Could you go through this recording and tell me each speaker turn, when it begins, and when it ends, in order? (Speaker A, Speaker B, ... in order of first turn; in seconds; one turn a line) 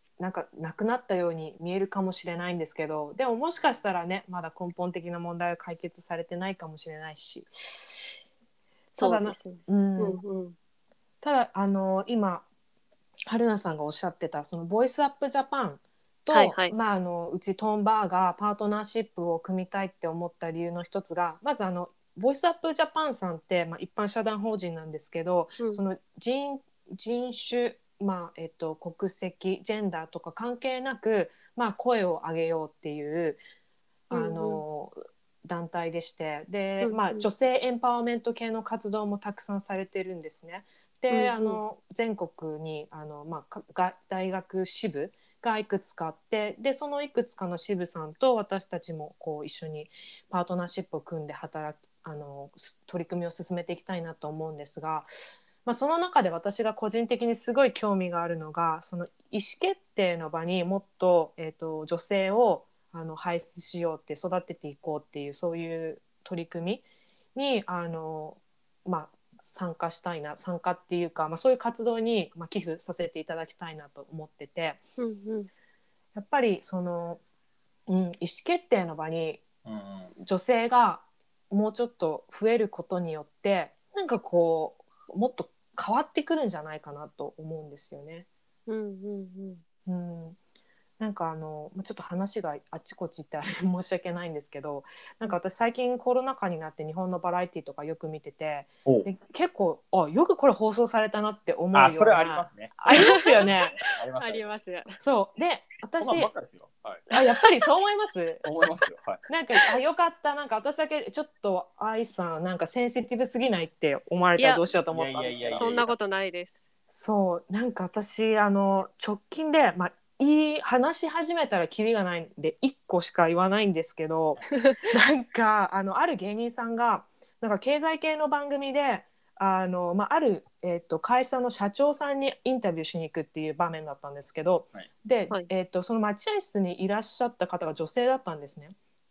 Speaker A: 0.2-8.2
Speaker B: 8.9-10.5
Speaker A: 9.0-10.2
Speaker A: 11.2-12.4
Speaker A: 13.3-33.4
Speaker B: 16.3-16.7
Speaker A: 34.1-55.1
Speaker B: 34.1-34.6
Speaker B: 36.8-37.2
Speaker B: 41.1-41.6
Speaker A: 55.6-74.8
Speaker B: 75.0-75.5
Speaker A: 76.1-77.2
Speaker A: 77.9-79.4
Speaker C: 79.6-80.1
Speaker A: 80.2-88.3
Speaker B: 88.7-89.6
Speaker A: 89.8-90.4
Speaker A: 91.0-103.7
Speaker C: 101.7-104.5
Speaker B: 102.9-105.0
Speaker A: 105.0-106.3
Speaker C: 106.0-107.0
Speaker A: 107.1-108.4
Speaker C: 108.4-109.2
Speaker A: 109.3-115.7
Speaker B: 114.4-114.6
Speaker C: 114.9-115.9
Speaker B: 115.5-116.5
Speaker A: 116.9-138.7
Speaker B: 124.5-124.8